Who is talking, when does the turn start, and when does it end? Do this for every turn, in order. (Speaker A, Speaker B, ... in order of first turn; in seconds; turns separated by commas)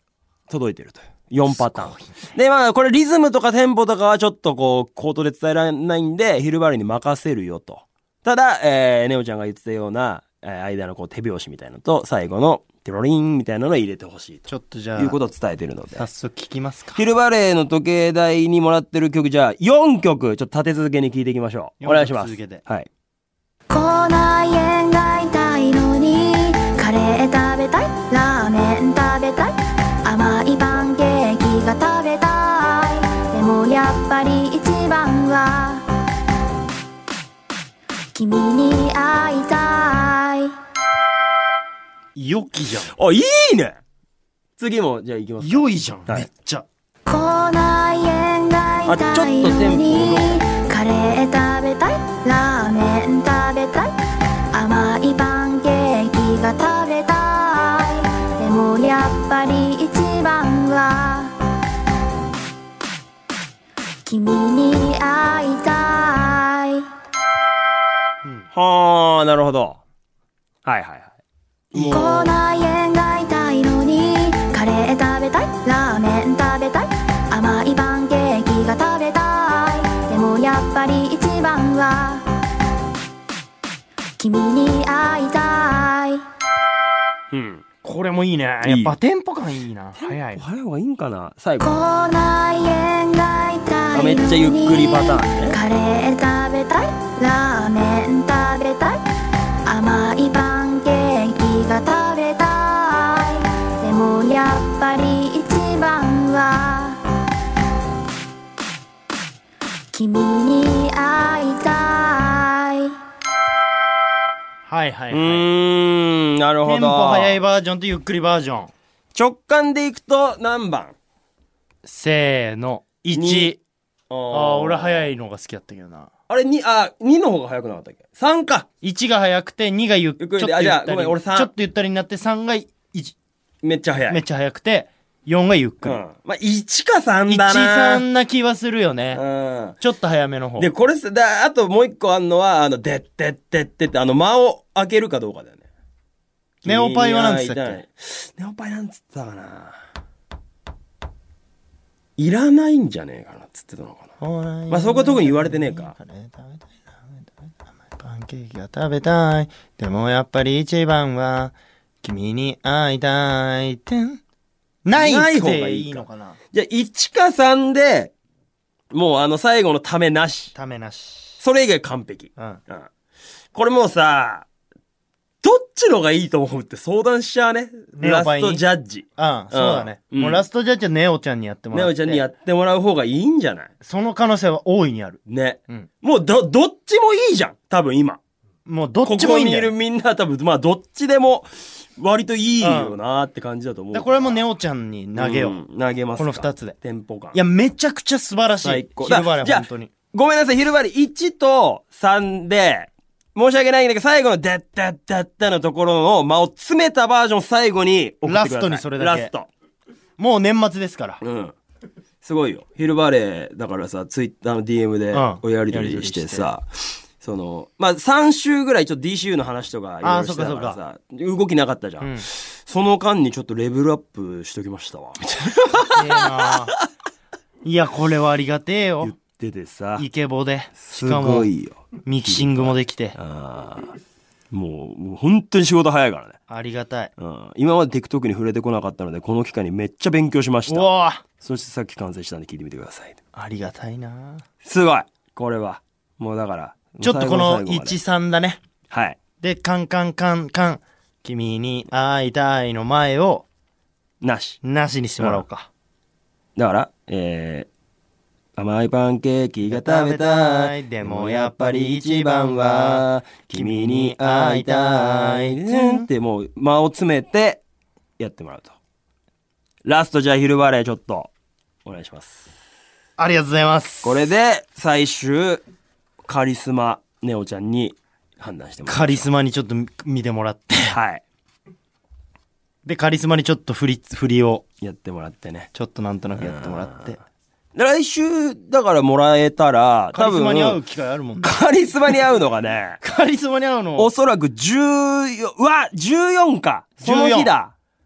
Speaker A: 0.5-16.1, Speaker B: 1.5-2.2, Speaker B: 14.5-15.2, Speaker B: 15.9-17.0, Speaker A: 16.9-22.9, Speaker B: 21.8-22.6, Speaker C: 23.7-35.9, Speaker C: 38.1-40.5, Speaker B: 42.1-42.9, Speaker A: 42.9-43.8, Speaker A: 44.6-46.3, Speaker B: 45.4-46.6, Speaker C: 47.0-53.9, Speaker A: 48.9-50.5, Speaker C: 54.5-61.3, Speaker C: 64.0-66.9, Speaker A: 68.5-69.8, Speaker A: 70.6-71.1, Speaker A: 71.7-72.3, Speaker B: 71.7-72.1, Speaker C: 71.9-82.2, Speaker C: 84.2-86.2, Speaker A: 87.3-87.6, Speaker B: 87.8-90.4, Speaker A: 88.6-88.9, Speaker A: 90.0-91.7, Speaker C: 91.6-99.0, Speaker A: 93.9-95.6, Speaker C: 99.7-107.0, Speaker C: 109.9-113.0, Speaker B: 114.7-115.5, Speaker A: 115.1-117.4, Speaker B: 116.6-118.7, Speaker A: 119.1-120.9, Speaker B: 121.8-123.6, Speaker A: 123.1-123.5, Speaker A: 124.1-125.1, Speaker B: 124.3-126.1, Speaker A: 126.3-128.7, Speaker B: 128.8-133.2, Speaker A: 130.2-131.5, Speaker A: 133.6-134.2, Speaker B: 134.1-136.0, Speaker A: 135.8-138.0, Speaker B: 137.3-139.2, Speaker A: 139.1-139.8, Speaker B: 139.8-140.7, Speaker A: 140.6-145.6, Speaker A: 146.6-149.8, Speaker B: 146.6-147.8, Speaker A: 152.2-154.1, Speaker B: 154.2-157.2, Speaker A: 154.7-155.9, Speaker B: 157.8-164.2, Speaker B: 164.8-166.4, Speaker A: 164.9-168.1, Speaker A: 168.9-170.5, Speaker B: 170.5-171.4, Speaker A: 171.4-172.9, Speaker A: 173.5-174.4, Speaker A: 175.4-180.4, Speaker B: 178.0-178.6, Speaker B: 179.2-182.2, Speaker A: 181.7-183.7, Speaker B: 183.8-185.9, Speaker A: 185.2-188.2, Speaker B: 188.7-189.7, Speaker A: 189.0-194.4, Speaker B: 192.6-193.0, Speaker B: 193.9-195.6, Speaker A: 195.2-197.4, Speaker B: 196.2-196.8, Speaker B: 197.3-199.9, Speaker A: 198.6-209.5, Speaker B: 208.2-209.3, Speaker B: 210.2-211.2, Speaker A: 211.2-211.6, Speaker A: 212.2-226.6, Speaker B: 215.1-216.5, Speaker B: 220.0-220.8, Speaker B: 222.0-222.3, Speaker B: 225.9-226.7, Speaker B: 227.6-229.1, Speaker A: 229.0-230.1, Speaker B: 230.0-231.5, Speaker A: 230.8-234.0, Speaker B: 232.0-233.2, Speaker A: 234.5-236.4, Speaker B: 236.5-237.1, Speaker A: 237.2-243.2, Speaker B: 240.7-241.2, Speaker B: 243.3-244.4, Speaker A: 244.6-248.0, Speaker B: 247.0-248.6, Speaker A: 248.9-249.2, Speaker B: 249.4-253.4, Speaker A: 254.2-254.6, Speaker B: 254.6-255.7, Speaker A: 256.6-257.7, Speaker A: 258.6-267.6, Speaker B: 259.7-266.1, Speaker A: 268.2-268.7, Speaker A: 269.8-271.3, Speaker A: 271.8-272.5, Speaker B: 273.2-274.2, Speaker A: 274.0-275.6, Speaker A: 276.2-279.3, Speaker B: 278.9-280.9, Speaker A: 280.9-281.2, Speaker B: 282.8-284.6, Speaker A: 284.8-285.7, Speaker B: 285.7-287.2, Speaker A: 286.4-287.1, Speaker A: 287.7-290.8, Speaker B: 290.1-291.6, Speaker A: 291.4-293.0, Speaker B: 293.0-294.1, Speaker A: 294.0-297.7, Speaker B: 297.0-297.5